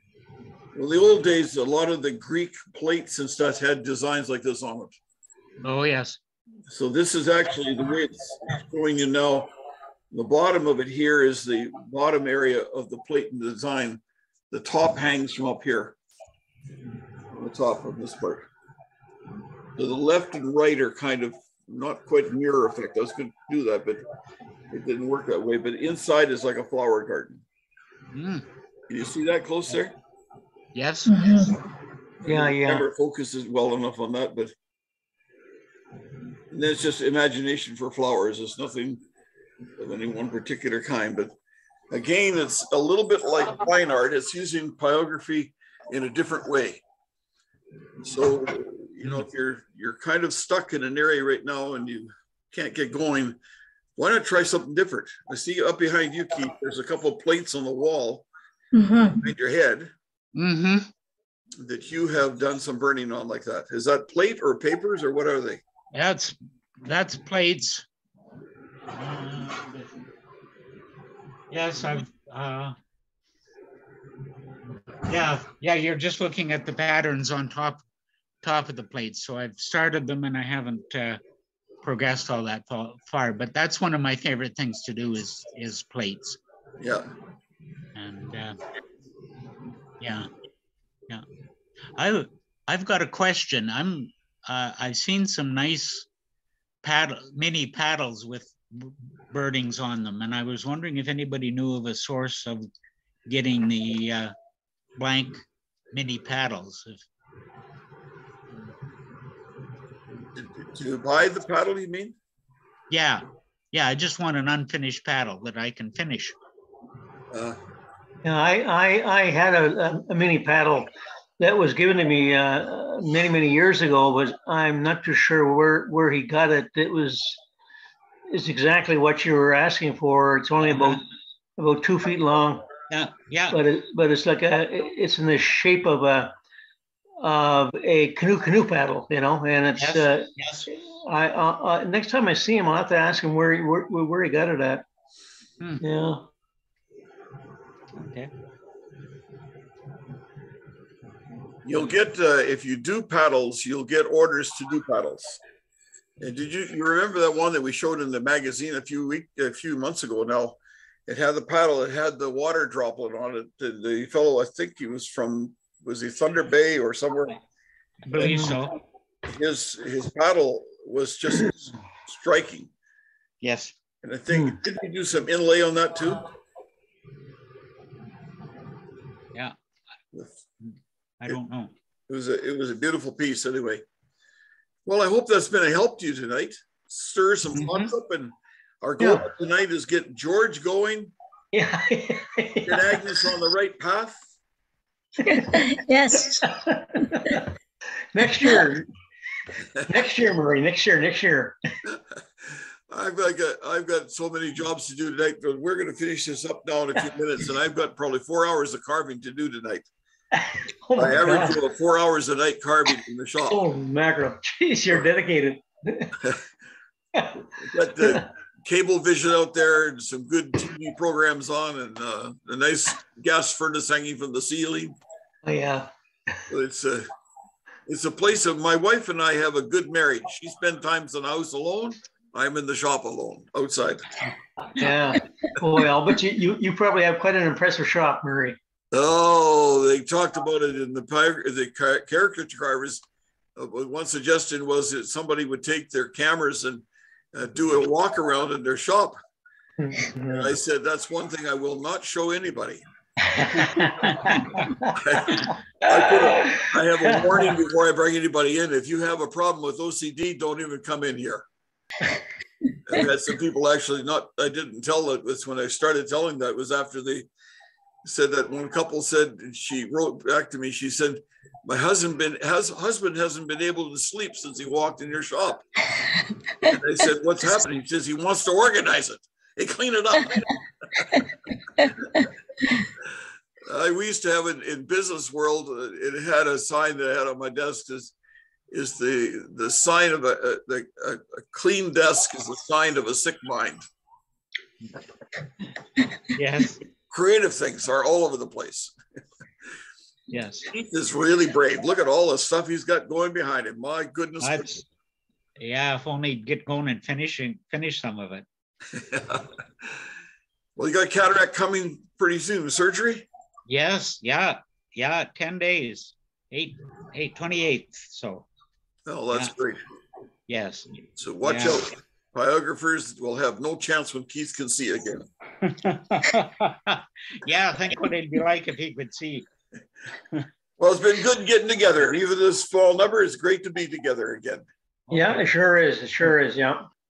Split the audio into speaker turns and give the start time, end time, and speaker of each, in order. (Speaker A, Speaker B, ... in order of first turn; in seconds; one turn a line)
Speaker A: 0.7-5.0
Speaker B: 5.6-6.2
Speaker A: 6.7-9.5
Speaker A: 10.1-15.9
Speaker A: 17.3-18.5
Speaker A: 19.8-24.0
Speaker A: 24.7-27.4
Speaker B: 28.1-28.4
Speaker A: 28.9-29.9
Speaker B: 30.7-31.2
Speaker C: 31.1-31.5
Speaker D: 32.2-32.9
Speaker A: 32.2-34.5
Speaker A: 36.5-39.0
Speaker A: 39.8-41.3
Speaker A: 41.9-46.8
Speaker A: 48.0-53.4
Speaker A: 54.0-58.3
Speaker C: 58.7-59.2
Speaker A: 59.2-59.9
Speaker B: 60.3-60.9
Speaker A: 61.6-65.6
Speaker B: 65.9-67.8
Speaker B: 68.9-69.9
Speaker B: 71.5-72.8
Speaker B: 75.1-77.8
Speaker B: 78.4-81.2
Speaker B: 81.8-86.4
Speaker A: 86.8-87.1
Speaker B: 87.9-88.6
Speaker B: 90.0-90.3
Speaker B: 92.0-96.1
Speaker B: 96.8-102.7
Speaker B: 103.3-104.3
Speaker B: 105.0-107.0
Speaker A: 110.3-112.2
Speaker B: 112.9-116.3
Speaker A: 117.3-117.6
Speaker D: 118.2-127.4
Speaker D: 128.3-131.0
Speaker D: 131.6-132.7
Speaker B: 132.9-133.6
Speaker D: 133.5-136.3
Speaker D: 137.2-144.8
Speaker B: 139.8-140.7
Speaker D: 145.8-146.2
Speaker B: 147.9-148.3
Speaker A: 151.6-155.4
Speaker A: 156.2-167.4
Speaker B: 168.1-168.8
Speaker D: 168.2-168.5
Speaker A: 169.2-172.7
Speaker B: 173.4-173.7
Speaker A: 174.0-176.3
Speaker D: 174.3-174.6
Speaker A: 180.1-180.4
Speaker B: 180.6-181.7
Speaker A: 182.1-183.8
Speaker A: 184.8-191.1
Speaker B: 187.5-187.9
Speaker D: 189.0-189.2
Speaker D: 191.5-193.0
Speaker A: 192.6-194.2
Speaker C: 195.3-196.5
Speaker D: 196.4-197.4
Speaker D: 198.1-198.9
Speaker D: 199.8-201.6
Speaker A: 201.8-209.9
Speaker D: 210.3-211.6
Speaker A: 210.9-213.6
Speaker D: 213.5-216.2
Speaker D: 217.1-217.4
Speaker A: 217.6-225.0
Speaker D: 225.4-226.4
Speaker A: 226.5-227.1
Speaker A: 227.9-234.1
Speaker D: 234.7-238.6
Speaker A: 238.9-243.0
Speaker A: 243.6-249.2
Speaker D: 249.8-250.5
Speaker A: 250.2-252.8
Speaker D: 253.3-255.0
Speaker B: 253.8-254.6
Speaker A: 254.9-261.5
Speaker D: 255.9-257.2
Speaker A: 262.9-267.3
Speaker A: 268.0-275.6
Speaker A: 276.6-281.3
Speaker A: 281.8-282.2
Speaker A: 283.6-288.1
Speaker A: 288.7-293.8
Speaker B: 296.3-296.8
Speaker A: 297.1-298.9
Speaker B: 300.3-300.7
Speaker A: 300.7-304.8
Speaker B: 304.4-304.9
Speaker B: 305.6-308.4
Speaker A: 308.9-310.0
Speaker A: 310.8-313.3
Speaker B: 313.7-318.5
Speaker A: 319.1-319.8
Speaker B: 320.5-320.9
Speaker A: 321.1-325.3
Speaker B: 321.4-321.8
Speaker B: 325.6-329.4
Speaker A: 330.8-334.7
Speaker B: 335.1-335.4
Speaker D: 335.1-336.9